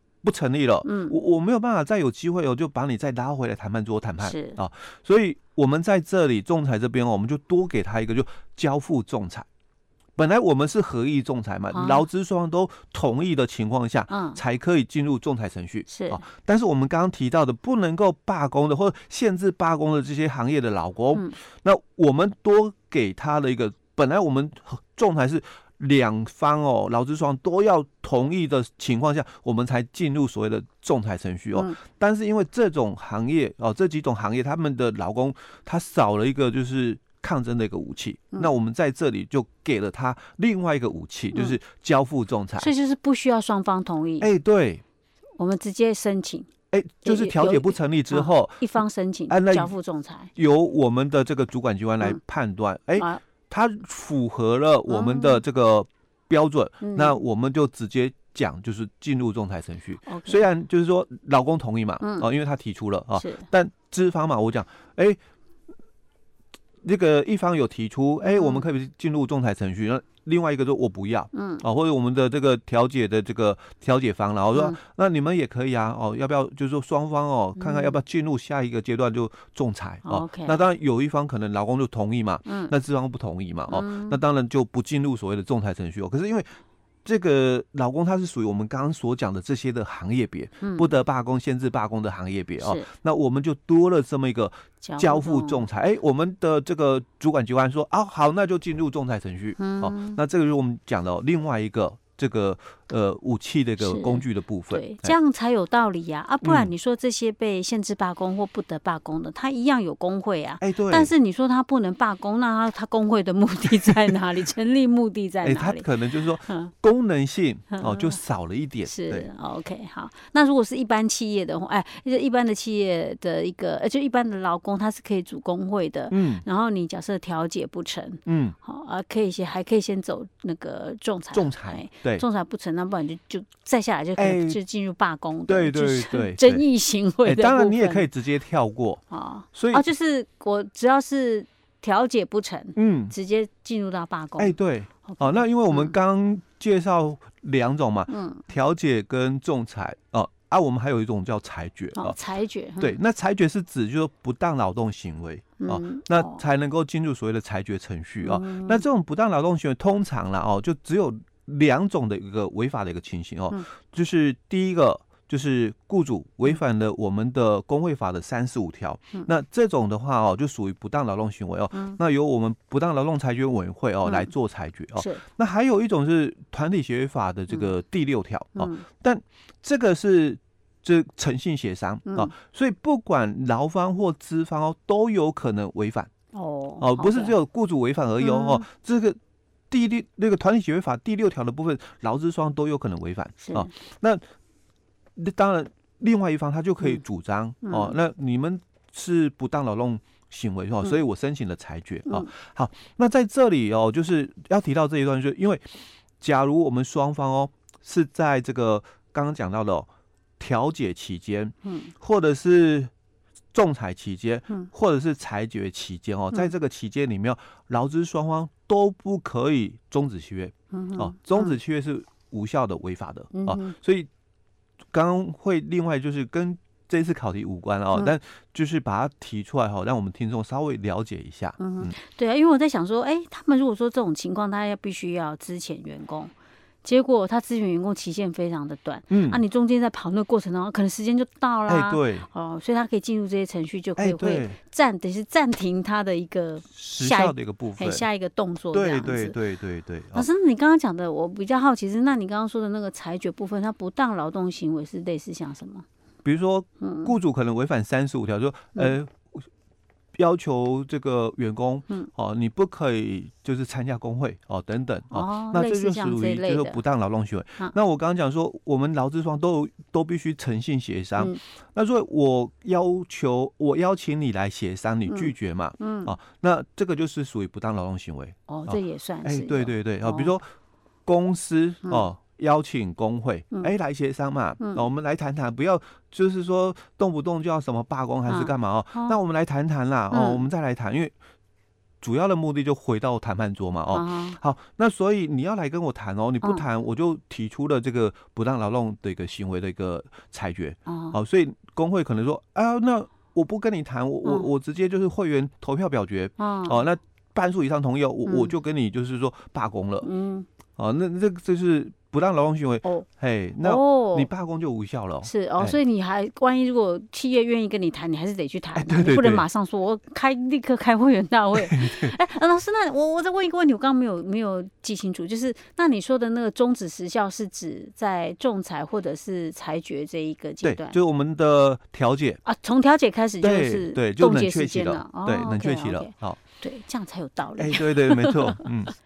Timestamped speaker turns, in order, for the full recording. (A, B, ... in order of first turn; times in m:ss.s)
0:00.2-0:09.4 A
0:00.8-0:01.2 B
0:04.2-0:04.6 B
0:10.2-0:42.7 A
0:11.7-0:12.0 B
0:14.1-0:14.4 B
0:15.9-0:16.2 B
0:31.5-0:31.8 B
0:42.6-0:44.3 B
0:44.2-0:44.8 A
0:45.4-0:46.5 B
0:46.7-0:48.8 A
0:47.0-0:50.3 B
0:49.3-0:49.7 A
0:50.3-1:05.2 A
0:53.0-0:53.2 B
0:54.9-0:55.4 B
0:56.8-0:57.2 B
1:00.0-1:00.4 B
1:02.0-1:02.3 B
1:03.1-1:03.5 B
1:06.8-1:26.5 A
1:08.2-1:08.6 B
1:11.3-1:11.6 B
1:17.6-1:18.0 B
1:20.0-1:20.6 B
1:22.4-1:22.7 B
1:23.7-1:24.2 B
1:27.0-1:45.2 A
1:30.6-1:30.9 B
1:32.6-1:32.9 B
1:34.8-1:35.6 B
1:39.6-1:40.2 B
1:43.8-1:56.7 B
1:46.4-1:46.7 A
1:50.6-1:51.1 A
1:53.8-1:54.1 A
1:55.4-1:59.3 A
1:57.7-1:58.2 B
1:58.8-2:18.1 B
2:06.1-2:06.4 A
2:08.2-2:08.5 A
2:11.3-2:12.2 A
2:14.2-2:14.6 A
2:15.5-2:16.6 A
2:17.2-2:19.0 A
2:19.1-2:24.5 B
2:19.5-2:19.8 A
2:22.8-2:23.1 A
2:24.4-2:32.2 A
2:25.0-2:25.9 B
2:28.1-2:28.4 B
2:32.0-2:33.0 B
2:32.8-3:06.1 A
2:35.6-2:36.4 B
2:38.2-2:38.8 B
2:51.7-2:52.0 B
2:54.0-2:54.3 B
2:55.0-2:55.2 B
2:58.6-2:58.8 B
3:02.0-3:02.3 B
3:06.3-3:07.3 B
3:06.8-3:09.2 A
3:08.2-3:08.6 B
3:09.7-3:14.2 A
3:13.4-3:13.7 B
3:15.2-3:32.9 A
3:17.6-3:17.9 B
3:31.6-3:31.9 B
3:33.5-3:44.1 A
3:40.7-3:41.6 B
3:43.3-3:43.7 B
3:44.9-3:51.9 A
3:51.6-3:56.3 B
3:56.8-4:09.4 B
3:59.1-3:59.4 A
4:01.7-4:02.3 A
4:04.0-4:04.6 A
4:06.7-4:08.1 A
4:08.7-4:10.3 A
4:10.1-4:15.8 B
4:16.2-4:19.3 A
4:16.8-4:17.1 B
4:20.1-4:40.4 A
4:25.1-4:26.8 B
4:35.1-4:36.1 B
4:38.5-4:40.3 B
4:41.0-4:51.1 A
4:44.6-4:44.8 B
4:48.2-4:49.2 B
4:50.1-4:50.4 B
4:52.0-5:10.1 A
4:53.9-4:54.4 B
5:00.8-5:01.2 B
5:06.4-5:06.8 B
5:08.2-5:08.5 B
5:10.0-5:10.5 B
5:10.8-5:15.8 A
5:13.6-5:14.3 B
5:15.2-5:31.0 B
5:18.7-5:19.4 A
5:21.6-5:22.1 A
5:30.6-5:32.4 A
5:32.4-5:38.6 B
5:33.4-5:36.4 A
5:37.6-5:38.9 A